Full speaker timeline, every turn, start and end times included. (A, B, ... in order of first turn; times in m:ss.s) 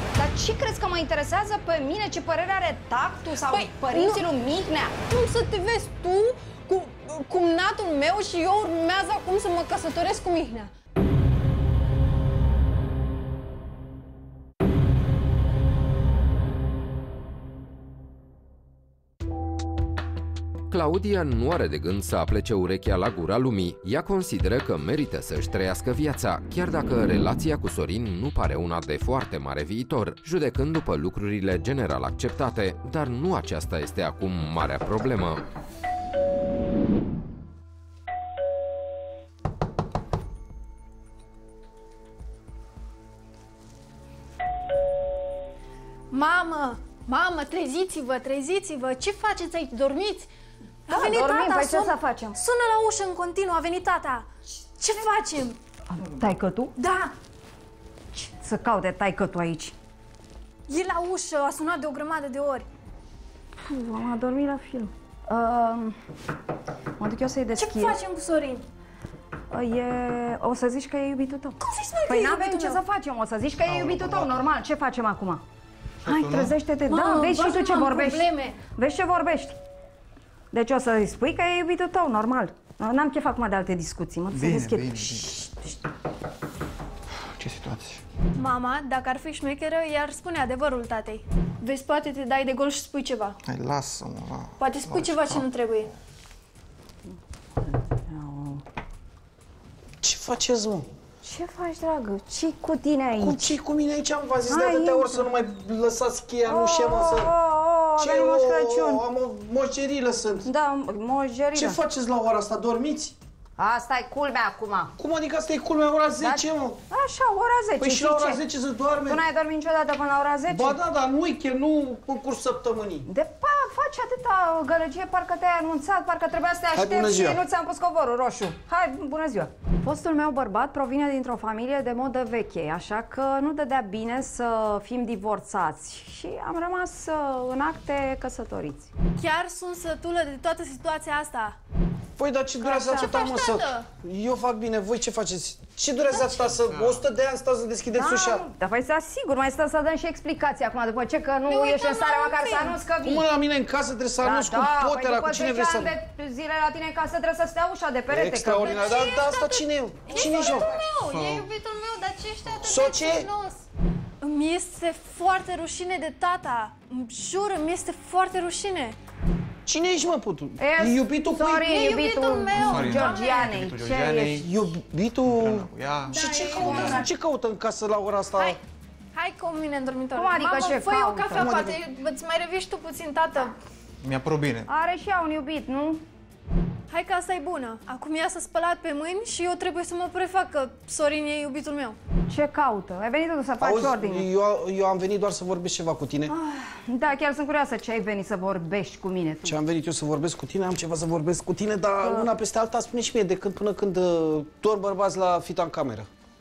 0:00.2-0:04.9 A
0:03.4-0:04.2 B
0:05.1-0:10.7 B
0:20.7-0:35.4 C
0:46.1-0:50.3 B
0:50.9-0:54.3 B
0:50.9-0:52.4 A
0:54.8-0:55.6 B
0:55.9-0:56.8 A
0:56.8-0:57.1 B
0:58.1-0:59.7 A
1:00.7-1:02.7 B
1:03.6-1:06.0 A
1:07.0-1:08.0 A
1:07.6-1:08.6 B
1:09.5-1:15.4 A
1:11.6-1:12.8 B
1:13.6-1:14.4 D
1:16.0-1:16.5 E
1:16.0-1:19.6 A
1:16.9-1:18.6 B
1:20.5-1:25.5 A
1:24.3-1:25.5 E
1:27.3-1:28.0 E
1:28.4-1:33.4 B
1:33.4-1:35.4 E
1:34.6-1:35.9 B
1:37.7-1:38.6 A
1:40.0-1:40.9 D
1:41.2-1:43.5 A
1:43.2-1:47.3 D
1:44.5-1:45.3 A
1:46.5-1:49.0 A
1:48.0-1:50.5 D
1:50.4-1:51.8 A
1:51.5-1:53.1 D
1:53.6-1:54.9 A
1:55.0-1:56.8 D
1:56.2-1:58.4 A
1:57.8-1:59.2 D
1:59.0-2:00.8 A
2:00.5-2:03.1 D
2:03.1-2:18.9 A
2:06.7-2:07.4 D
2:19.2-2:21.6 B
2:22.2-2:28.4 D
2:22.6-2:23.9 B
2:27.9-2:33.3 A
2:31.4-2:32.8 B
2:32.9-2:35.9 D
2:34.2-2:39.0 A
2:38.1-2:40.8 D
2:38.6-2:43.6 B
2:42.6-2:43.3 D
2:44.2-2:49.0 B
2:49.6-2:51.8 D
2:50.6-2:54.4 A
2:51.6-2:53.5 B
2:52.5-2:54.5 E
2:54.2-2:58.6 D
2:55.2-2:56.2 E
2:56.1-2:57.0 B
2:56.6-2:57.0 A
2:59.1-3:03.6 B
3:00.1-3:01.7 A
3:01.3-3:01.8 D
3:04.0-3:04.7 E
3:04.7-3:06.0 A
3:06.9-3:12.0 B
3:12.3-3:14.2 A
3:13.6-3:16.3 D
3:16.3-3:19.6 A
3:19.4-3:26.1 D
3:22.0-3:22.3 A